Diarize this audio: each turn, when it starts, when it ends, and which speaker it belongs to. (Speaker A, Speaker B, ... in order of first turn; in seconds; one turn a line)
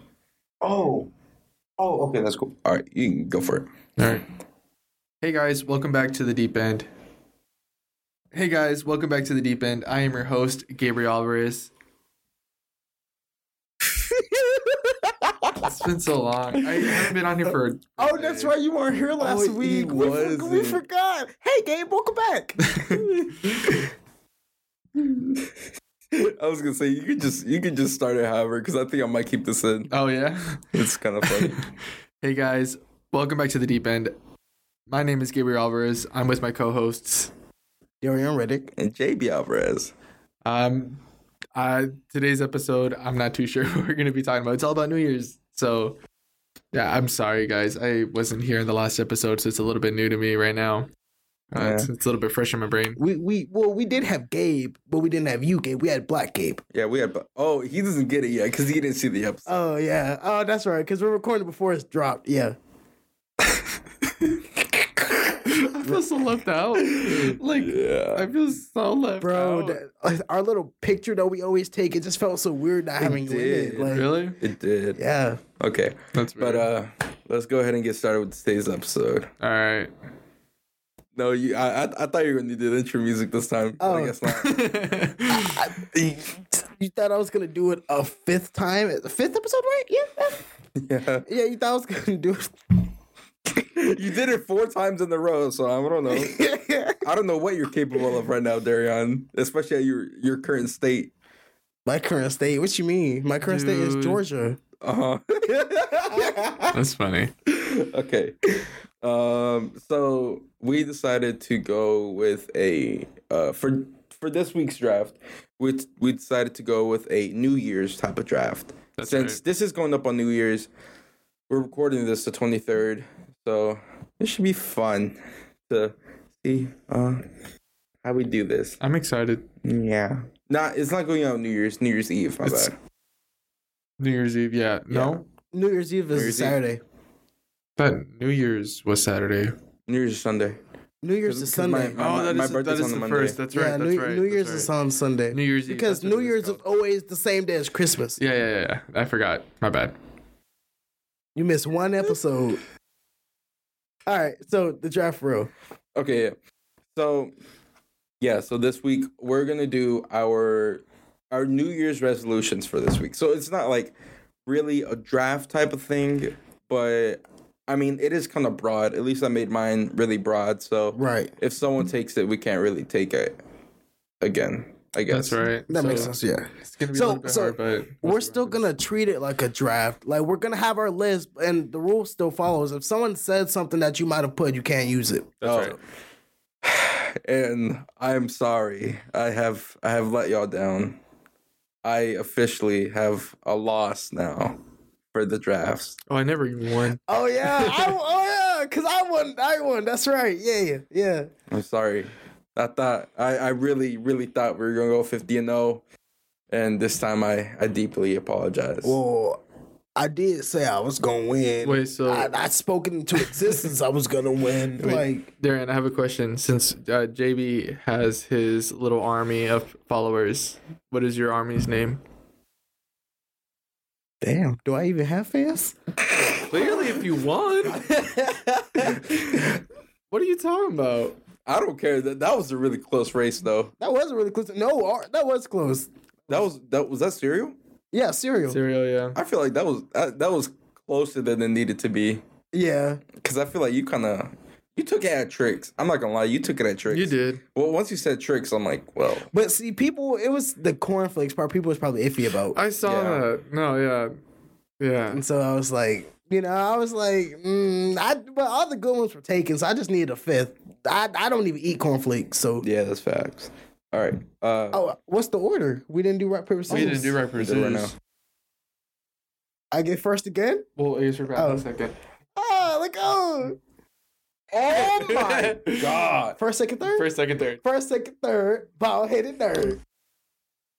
Speaker A: 0.6-1.1
Speaker A: 1.8-4.2
Speaker B: 4.0-4.2
Speaker B: 5.2-6.9
Speaker B: 8.3-11.7
Speaker B: 15.6-18.5
Speaker C: 18.0-23.0
Speaker A: 19.2-20.8
Speaker B: 22.7-23.0
Speaker A: 22.9-23.4
Speaker A: 25.0-25.5
Speaker A: 26.1-29.9
Speaker B: 29.9-31.6
Speaker A: 30.7-31.6
Speaker B: 32.2-34.1
Speaker B: 34.9-37.3
Speaker C: 38.0-38.7
Speaker A: 38.8-39.9
Speaker B: 40.4-41.0
Speaker B: 41.5-46.0
Speaker B: 46.7-50.9
Speaker B: 51.5-53.0
Speaker A: 51.5-51.9
Speaker C: 53.0-56.6
Speaker A: 56.7-59.5
Speaker C: 59.5-62.5
Speaker C: 64.7-66.0
Speaker B: 65.5-69.8
Speaker A: 66.8-68.3
Speaker C: 69.2-74.2
Speaker A: 73.0-75.0
Speaker B: 73.8-74.4
Speaker C: 75.0-75.4
Speaker A: 75.6-79.3
Speaker B: 76.1-76.7
Speaker B: 79.4-79.9
Speaker A: 81.1-84.5
Speaker C: 83.8-84.2
Speaker B: 84.2-85.7
Speaker C: 85.3-90.4
Speaker A: 90.8-91.3
Speaker C: 91.2-92.5
Speaker A: 93.7-96.4
Speaker C: 96.1-97.0
Speaker A: 97.0-101.1
Speaker C: 101.8-104.6
Speaker B: 103.4-104.2
Speaker A: 104.8-106.4
Speaker C: 106.1-106.7
Speaker B: 106.7-107.3
Speaker A: 107.5-108.3
Speaker A: 109.0-120.7
Speaker B: 119.0-119.4
Speaker A: 121.5-125.2
Speaker A: 125.7-127.2
Speaker A: 128.0-128.8
Speaker B: 128.8-129.5
Speaker A: 129.6-132.7
Speaker B: 132.4-132.7
Speaker B: 134.0-135.2
Speaker A: 134.9-135.2
Speaker C: 135.5-136.8
Speaker A: 136.1-136.6
Speaker B: 137.8-139.5
Speaker A: 139.9-140.6
Speaker C: 141.0-142.0
Speaker A: 141.2-143.4
Speaker B: 142.0-144.7
Speaker C: 143.5-148.2
Speaker B: 145.3-146.6
Speaker B: 148.2-149.9
Speaker C: 151.3-152.6
Speaker C: 154.1-155.5
Speaker A: 155.9-156.3
Speaker A: 156.9-157.3
Speaker A: 158.2-163.9
Speaker A: 164.4-173.4
Speaker C: 170.9-171.3
Speaker A: 174.2-175.4
Speaker B: 175.1-176.1
Speaker C: 175.7-185.4
Speaker B: 176.7-178.7
Speaker B: 185.4-185.8
Speaker A: 185.4-185.8
Speaker A: 186.6-191.0
Speaker A: 191.8-194.6
Speaker A: 195.1-196.0
Speaker B: 196.1-197.0
Speaker C: 197.1-201.3
Speaker B: 197.6-197.9
Speaker A: 201.5-205.8
Speaker A: 206.5-209.0
Speaker C: 208.8-209.4
Speaker C: 209.9-215.3
Speaker B: 211.6-212.3
Speaker B: 214.8-222.0
Speaker C: 224.2-225.8
Speaker B: 226.3-227.8
Speaker A: 227.7-229.2
Speaker B: 230.1-231.2
Speaker A: 231.5-233.7
Speaker C: 233.8-235.9
Speaker A: 236.3-237.6
Speaker C: 237.9-238.6
Speaker B: 238.5-239.2
Speaker A: 239.1-242.2
Speaker C: 242.5-243.0
Speaker A: 243.2-249.3
Speaker B: 246.9-247.4
Speaker C: 249.3-252.6
Speaker B: 252.5-254.1
Speaker A: 252.8-253.2
Speaker B: 254.8-255.2
Speaker C: 255.1-262.6
Speaker A: 262.6-264.9
Speaker C: 264.7-267.1
Speaker B: 266.7-267.9
Speaker A: 267.4-267.9
Speaker C: 269.7-270.6
Speaker B: 270.8-271.9
Speaker C: 271.3-271.6
Speaker C: 272.3-273.6
Speaker A: 274.5-276.4
Speaker B: 274.7-275.8
Speaker C: 276.4-277.1
Speaker B: 276.9-277.6
Speaker C: 277.6-279.8